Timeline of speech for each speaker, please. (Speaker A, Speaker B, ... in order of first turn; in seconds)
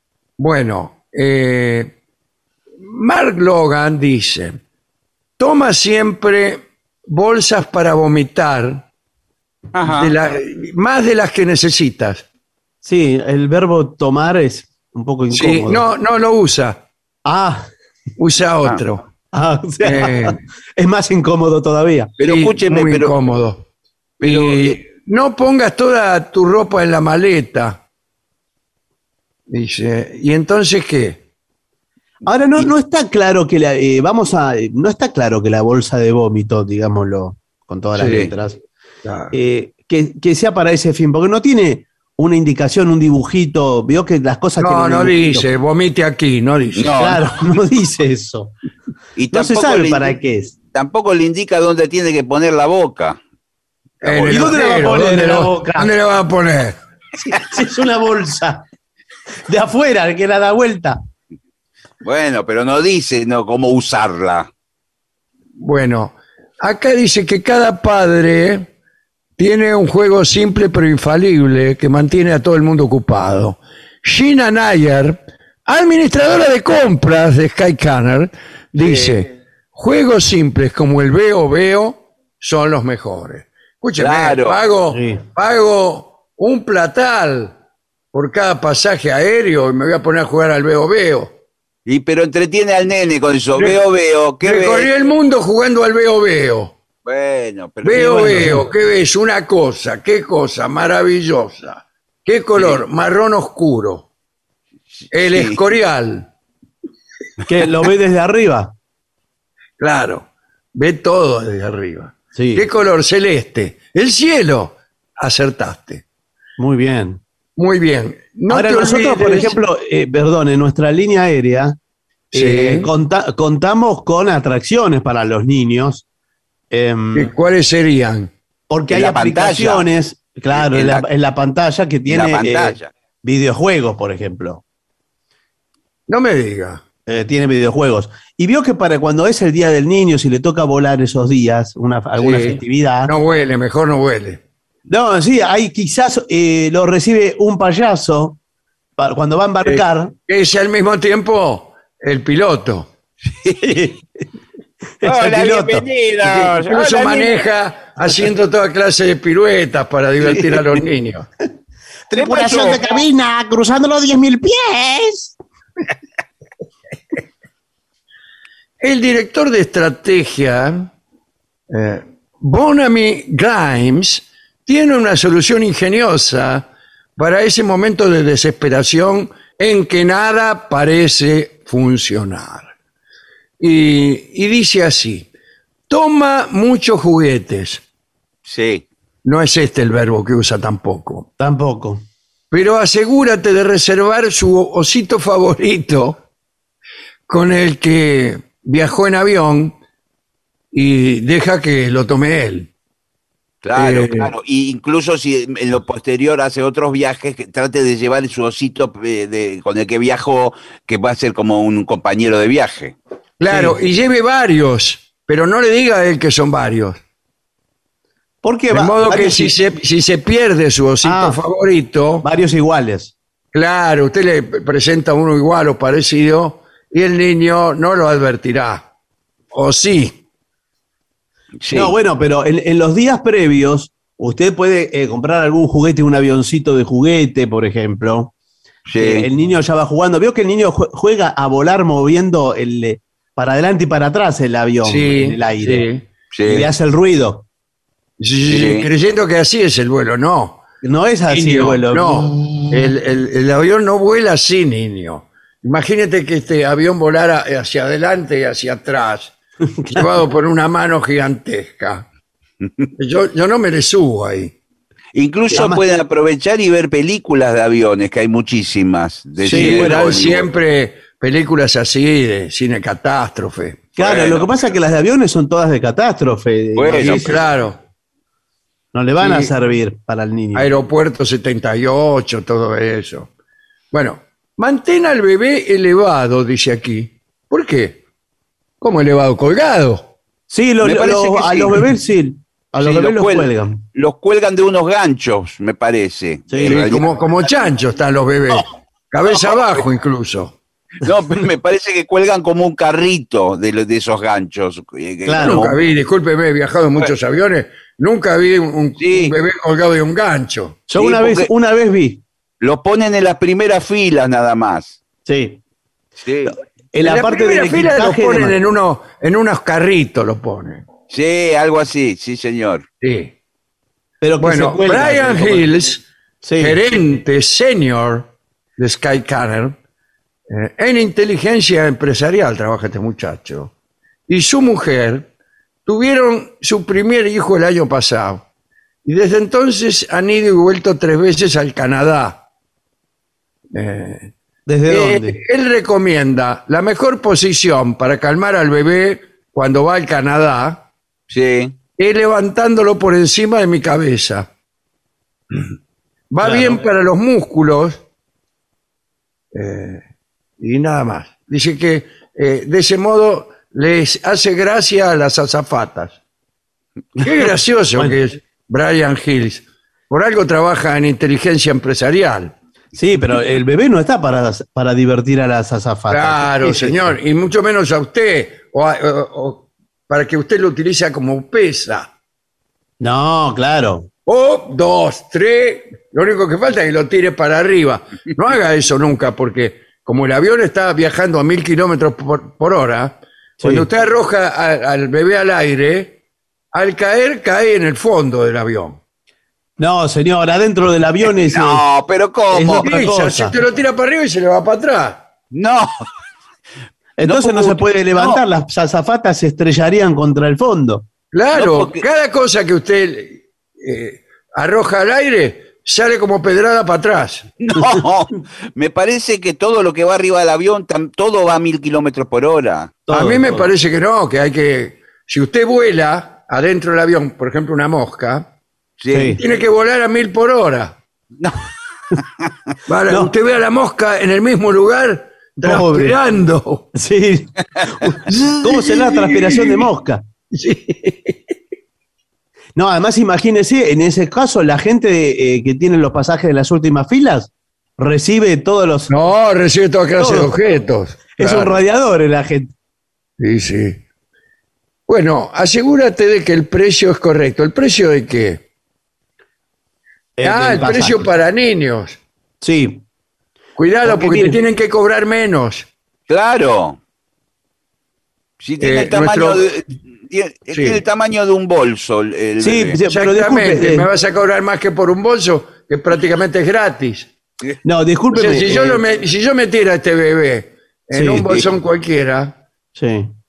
Speaker A: 0.4-1.9, 2.8-4.6, 5.4-8.9, 9.8-12.2, 15.3-16.8, 18.2-19.0, 19.8-20.4, 22.2-23.6, 24.2-27.8, 29.5-31.2, 38.0-38.2, 39.0-39.3, 44.6-47.1, 54.0-56.8, 65.6-68.7, 69.4-87.5, 88.1-91.3, 93.5-93.8, 94.4-96.7, 97.8-104.0, 105.1-106.3, 109.8-116.0, 117.6-119.6, 122.3-122.9, 127.1-128.3, 136.1-136.8, 142.2-144.4, 149.6-152.9, 156.2-161.3, 168.8-170.9, 171.7-182.7, 183.6-185.3, 185.9-187.8, 189.2-191.3, 192.5-196.2, 197.3-199.8, 200.7-202.7, 203.8-204.3, 213.4-217.0, 218.7-222.2, 223.5-228.9, 229.5-230.2, 244.8-246.1, 248.2-250.6, 251.3-259.3, 259.9-262.1, 263.0-264.5, 269.5-273.9, 276.9-277.8, 279.2-279.5, 280.5-283.3, 283.9-288.0, 288.8-290.1, 296.6-300.6, 305.4-310.8, 317.0-320.8, 323.0-323.3, 324.4-326.0, 326.6-329.8, 330.5-333.7, 334.3-335.3, 335.9-338.4, 339.0-342.4, 343.7-344.3, 344.9-350.8, 352.0-354.5, 356.3-358.0, 359.5-360.0, 360.6-366.2, 367.2-372.5, 376.1-382.1, 384.2-396.2, 396.7-399.0, 402.8-405.2, 411.3-417.4, 423.1-428.5, 429.4-431.0, 432.9-436.9, 439.0-439.8, 440.5-441.5, 449.1-451.8, 453.4-454.0, 455.1-458.6, 460.4-462.2, 463.8-465.9, 468.8-469.7, 470.7-471.0, 473.1-477.3, 478.3-482.6
Speaker B: 9.7-10.1, 22.2-23.1, 24.2-24.8, 38.0-38.3, 46.8-47.2, 49.1-50.2, 50.7-53.2, 62.0-64.5, 78.8-79.2, 84.0-84.6, 91.8-94.9, 97.0-98.5, 105.0-105.6, 128.9-129.8, 130.5-131.1, 132.1-132.9, 155.0-157.3, 162.2-163.0, 188.4-188.8, 203.6-212.9, 231.6-231.9, 238.9-239.2, 246.3-246.7, 248.5-248.8, 265.1-270.5, 274.0-274.4, 276.8-277.4, 290.8-291.9, 292.8-297.1, 301.0-305.8, 309.0-309.3, 310.9-311.5, 312.6-315.0, 316.2-316.5, 321.1-322.8, 351.3-351.7, 401.3-402.9, 405.5-405.9, 407.2-408.4, 411.5-412.0, 417.6-422.9, 429.0-429.4, 466.3-467.0, 468.6-473.0
Speaker C: 12.8-15.8, 17.2-17.7, 19.3-22.1, 32.2-38.6, 39.3-45.5, 47.0-48.5, 49.3-50.5, 54.0-55.9, 57.2-58.6, 59.5-61.0, 84.9-85.2, 97.9-98.6, 107.4-108.7, 112.3-112.6, 116.6-117.2, 118.5-121.8, 122.3-126.0, 126.7-127.3, 128.7-134.6, 137.1-143.1, 144.9-148.4, 149.0-150.1, 153.6-154.0, 155.0-155.8, 160.2-160.6, 162.1-165.3, 191.4-192.0, 213.5-213.8, 218.4-219.5, 221.0-221.4, 222.2-223.1, 231.7-238.3, 239.0-245.8, 246.5-247.4, 250.8-252.7, 259.7-260.2, 265.5-265.8, 269.4-270.1, 274.0-277.4, 278.9-280.7, 290.5-293.8, 296.5-296.9, 305.3-305.6, 310.9-312.2, 315.2-315.6, 316.4-318.6, 324.2-325.7, 326.4-326.8, 344.7-345.4, 372.9-377.1, 383.0-384.1, 393.6-393.9, 399.8-401.8, 402.5-403.6, 407.2-411.1, 423.1-423.7, 429.1-429.4, 435.6-436.2, 436.9-440.2, 442.8-449.1, 450.2-450.5, 451.4-452.7, 460.4-461.3, 462.6-463.0, 464.0-464.6, 472.6-474.1, 477.8-479.0, 481.1-481.5, 482.9-483.3